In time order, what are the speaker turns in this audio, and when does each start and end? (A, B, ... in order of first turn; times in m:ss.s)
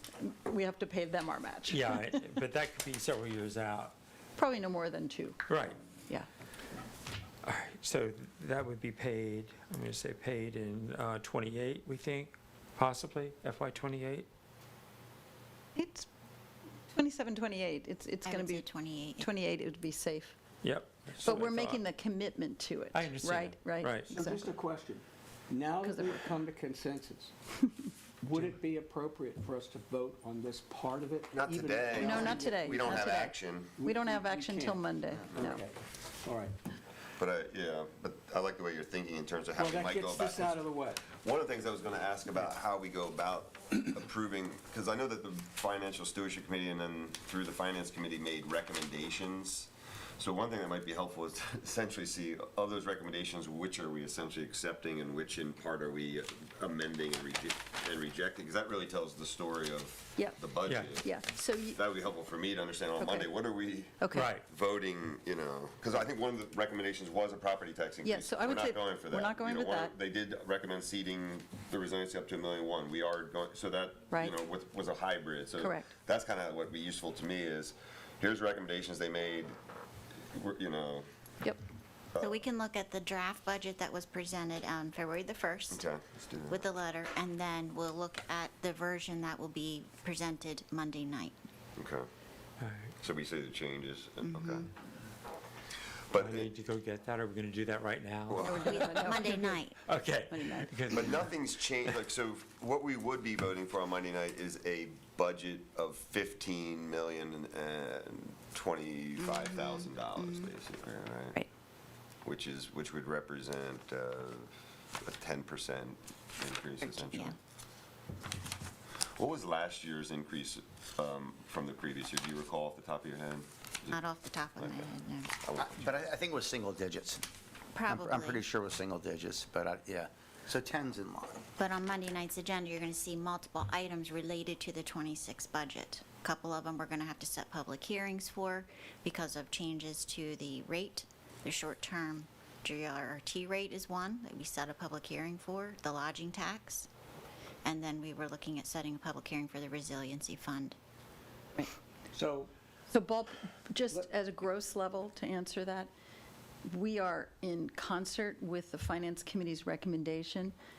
0:00.2-0:02.2 A
0:01.7-0:03.9 B
0:04.4-0:05.4 A
0:05.5-0:05.8 B
0:07.4-0:14.3 B
0:15.7-0:16.1 A
0:16.9-0:20.4 A
0:18.2-0:19.3 C
0:20.6-0:21.8 B
0:21.2-0:24.5 A
0:22.9-0:24.2 B
0:24.1-0:27.3 D
0:25.8-0:26.2 A
0:28.2-0:33.2 D
0:31.3-0:33.7 E
0:32.0-0:35.6 A
0:33.8-0:36.6 D
0:37.2-0:40.6 E
0:39.6-0:41.0 D
0:41.1-1:01.2 E
1:00.6-1:00.9 B
1:01.0-1:01.8 A
1:01.7-1:19.5 E
1:03.0-1:03.3 A
1:04.0-1:04.3 A
1:04.1-1:04.4 B
1:08.0-1:09.9 A
1:15.6-1:15.9 A
1:20.3-1:21.0 E
1:22.1-1:22.4 E
1:22.2-1:25.8 C
1:25.7-1:26.6 E
1:26.5-1:31.4 C
1:31.8-1:32.0 E
1:32.6-1:32.9 B
1:33.0-1:34.7 E
1:34.2-1:34.7 C
1:36.1-1:36.5 E
1:36.1-1:39.2 B
1:38.3-1:38.7 E
1:38.4-1:39.6 A
1:38.6-1:39.8 C
1:39.8-1:42.0 B
1:40.3-1:41.1 A
1:40.9-1:51.4 E
1:49.2-1:50.5 C
1:52.2-1:57.4 E
1:56.8-1:57.3 C
1:59.1-2:04.0 E
2:03.9-2:05.3 C
2:04.6-2:05.8 E
2:05.6-2:07.2 F
2:07.7-2:08.4 C
2:07.9-2:11.4 F
2:11.6-2:26.9 C
2:27.6-2:30.8 C
2:32.1-2:32.5 D
2:32.9-2:35.9 A
2:36.6-2:40.5 A